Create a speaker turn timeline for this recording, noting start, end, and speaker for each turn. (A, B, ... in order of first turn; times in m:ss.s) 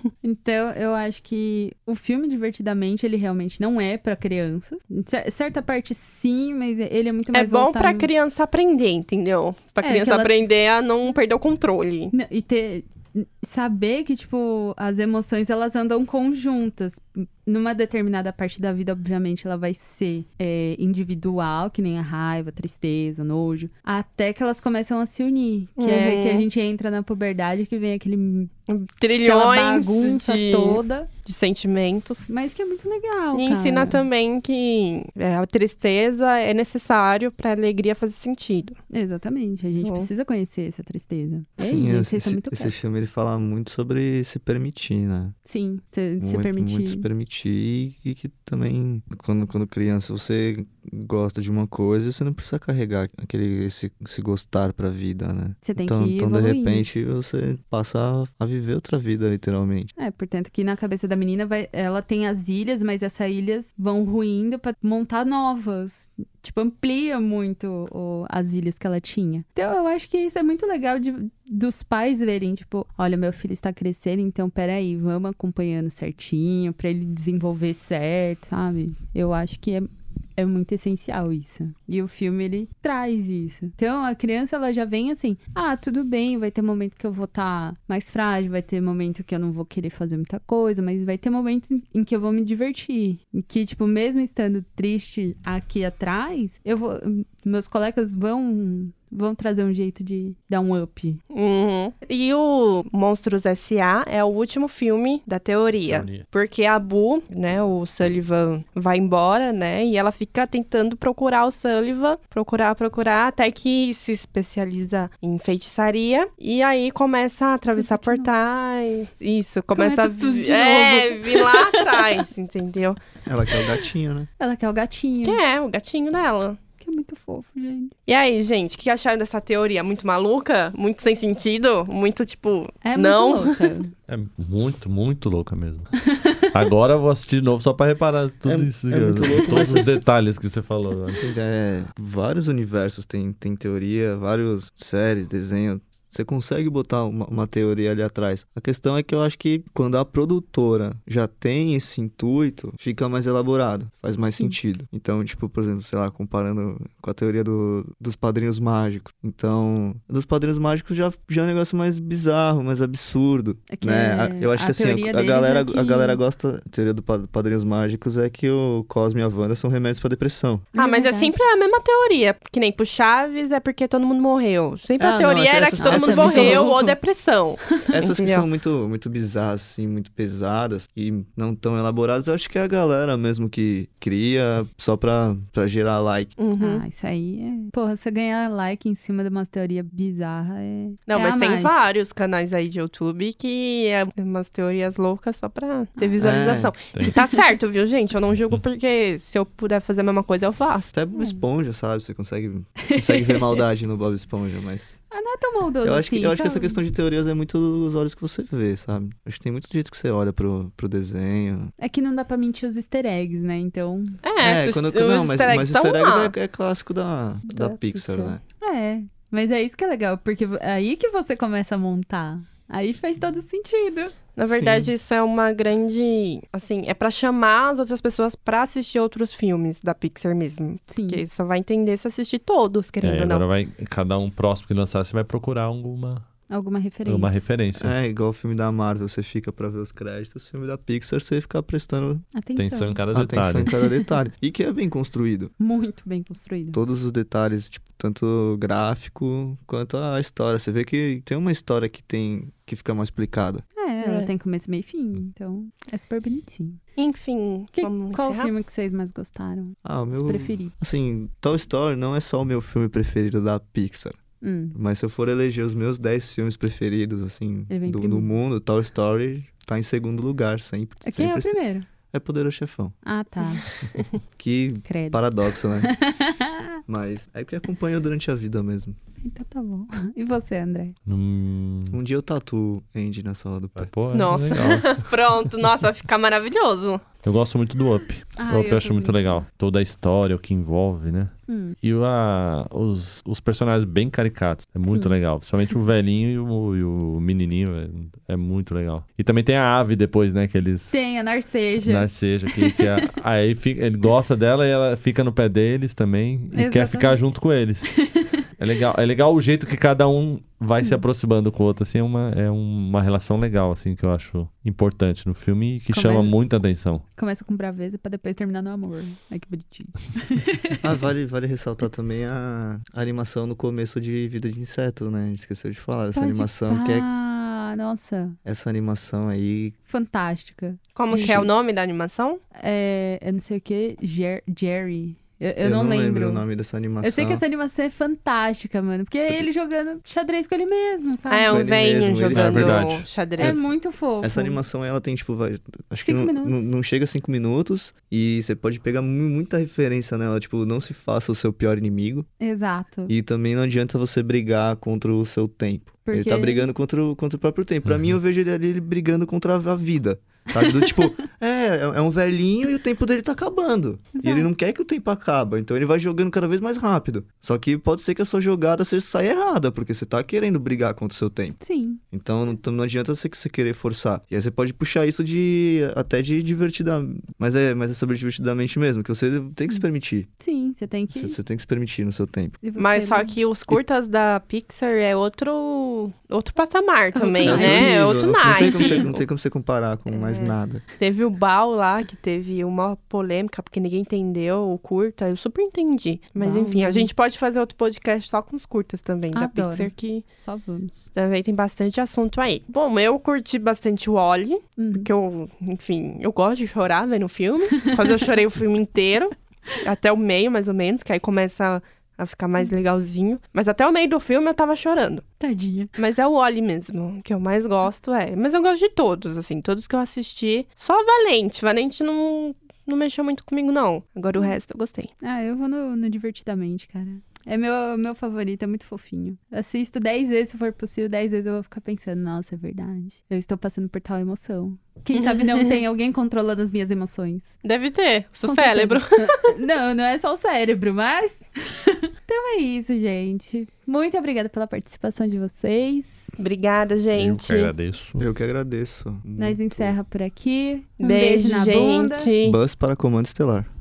0:00.2-0:08.1 A
0:07.3-0:12.1 B
0:09.8-0:10.5 A
0:12.1-0:28.5 A
0:25.8-0:26.5 B
0:28.7-0:32.3 B
0:29.2-0:31.1 A
0:32.3-0:34.0 A
0:33.3-0:38.8 B
0:38.9-0:42.8 A
0:39.8-0:40.1 B
0:41.6-0:45.4 C
0:45.5-0:47.1 A
0:46.2-0:59.9 C
0:55.6-0:56.9 A
1:00.0-1:41.2 A
1:41.3-2:03.0 B
1:45.9-1:46.2 D
1:57.7-1:58.3 A
1:59.7-2:02.2 A
2:03.3-2:04.3 C
2:04.4-2:05.4 A
2:05.2-2:06.6 B
2:06.8-2:07.9 A
2:08.1-2:13.7 B
2:12.8-2:13.9 A
2:14.1-2:21.2 D
2:16.1-2:16.4 A
2:18.4-2:20.0 C
2:21.1-2:50.7 C
2:43.7-2:46.2 A
2:50.7-2:51.3 A
2:50.8-2:58.5 B
2:55.0-2:56.7 C
2:55.8-2:57.0 A
2:57.9-3:06.4 C
3:06.4-3:06.8 B
3:06.6-3:11.8 A
3:11.1-3:20.9 B
3:16.0-3:16.6 A
3:16.2-3:16.8 C
3:16.9-3:17.2 D
3:20.9-3:25.0 C
3:22.9-3:23.6 A
3:25.1-3:26.8 A
3:25.8-3:31.7 C
3:31.8-3:34.2 A
3:34.2-3:36.3 B
3:34.4-3:38.4 C
3:37.5-3:38.4 B
3:38.6-3:44.2 A
3:44.4-3:53.4 B
3:44.5-3:44.9 C
3:50.9-3:51.2 A
3:53.0-3:56.3 D
3:56.5-3:57.4 A
3:57.1-3:57.9 D
3:57.8-4:02.3 C
4:02.4-4:03.0 A
4:02.6-4:03.8 D
4:03.1-4:05.5 C
4:03.7-4:04.1 A
4:05.6-4:06.8 A
4:06.7-4:13.6 C
4:13.8-4:16.8 A
4:14.0-4:14.3 B
4:17.0-4:18.5 B
4:17.8-4:20.8 A
4:19.8-4:24.2 C
4:24.4-4:24.8 A
4:24.7-4:31.6 C
4:27.7-4:28.3 A
4:31.0-4:31.9 A
4:32.1-4:33.0 C
4:33.0-4:33.6 A
4:34.4-4:36.0 C
4:34.8-4:35.2 A
4:35.7-4:36.8 A
4:36.9-4:39.0 C
4:39.2-4:41.0 A
4:41.1-4:42.0 D
4:41.9-4:43.9 C
4:43.8-4:45.1 D
4:44.1-4:47.0 B
4:47.2-5:01.0 D
4:48.4-4:49.4 A
4:51.5-4:51.8 A
4:54.9-4:55.2 A
5:00.9-5:03.1 A
5:01.8-5:17.0 D
5:06.5-5:07.2 A
5:08.0-5:08.3 A
5:15.9-5:16.4 A
5:17.2-5:20.8 A
5:20.8-5:27.0 C
5:26.2-5:28.4 A
5:28.4-5:29.8 C
5:29.9-5:31.5 A
5:31.0-5:32.4 B
5:31.1-5:31.5 C
5:32.6-5:36.4 A
5:35.6-5:37.4 C
5:37.0-5:41.7 A
5:41.3-5:43.6 B
5:41.5-5:43.6 C
5:42.3-5:43.0 D
5:43.4-5:44.6 A
5:44.2-5:52.3 C
5:46.0-5:46.7 A
5:52.4-5:53.1 A
5:53.1-6:11.6 C
5:56.1-5:56.7 A
5:57.8-5:58.1 D
6:00.6-6:01.1 A
6:04.1-6:04.5 A
6:11.6-6:12.0 A
6:12.1-6:20.3 C
6:20.4-6:21.4 A
6:21.1-6:22.6 C
6:22.6-6:23.3 A
6:22.8-6:29.2 B
6:27.1-6:29.0 A
6:27.4-6:30.8 C
6:30.1-6:30.6 A
6:31.0-6:40.2 B
6:36.4-6:37.1 A
6:39.3-6:41.1 A
6:41.2-6:55.2 B
6:44.8-6:45.1 A
6:47.8-6:48.2 A
6:55.4-6:56.0 A
6:56.0-7:05.1 B
7:05.2-7:17.6 A
7:15.2-7:15.7 B
7:17.6-7:19.5 B
7:18.5-7:26.4 A
7:26.4-7:27.7 B
7:27.1-7:28.3 D
7:28.2-7:30.0 C
7:29.4-7:32.3 A
7:31.0-7:32.6 B
7:32.4-7:33.7 C